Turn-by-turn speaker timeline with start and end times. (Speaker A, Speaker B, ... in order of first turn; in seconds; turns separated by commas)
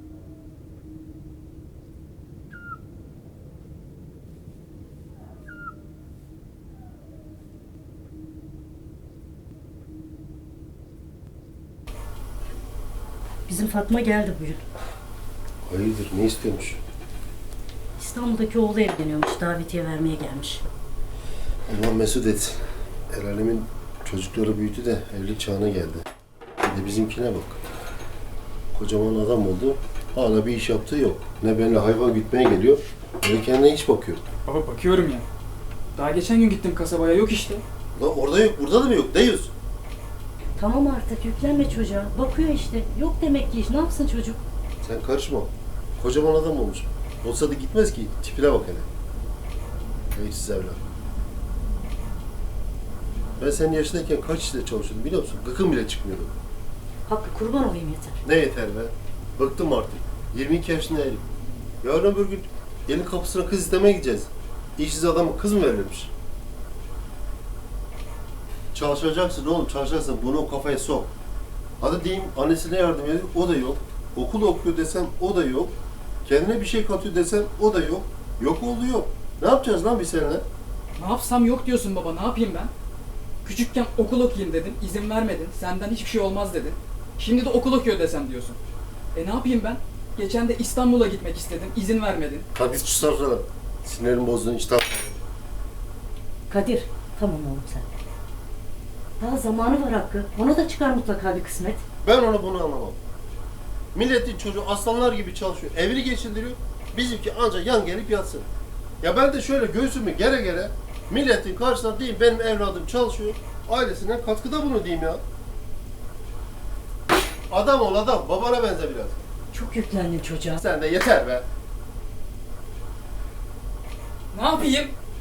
Speaker A: 13.5-14.6, Speaker B: 15.6-16.8, Speaker A: 18.0-20.6, Speaker B: 21.7-26.1, Speaker B: 26.6-27.6, Speaker B: 28.7-34.2, Speaker C: 34.5-35.3, Speaker C: 36.0-37.6, Speaker B: 38.0-39.5, Speaker A: 40.6-44.4, Speaker B: 44.8-48.9, Speaker B: 50.1-50.8, Speaker B: 53.4-56.3, Speaker A: 57.1-58.2, Speaker B: 58.2-61.2, Speaker B: 61.8-66.1, Speaker B: 68.7-71.1, Speaker B: 71.8-80.5, Speaker C: 81.0-82.7, Speaker C: 83.4-88.6, Speaker C: 89.2-92.5, Speaker B: 92.5-95.2, Speaker A: 96.5-97.9, Speaker A: 99.2-101.8, Speaker B: 102.0-103.0, Speaker B: 103.9-108.5, Speaker B: 109.0-115.2, Speaker B: 117.5-119.2, Speaker A: 119.5-120.6, Speaker B: 120.6-121.5, Speaker C: 124.3-125.0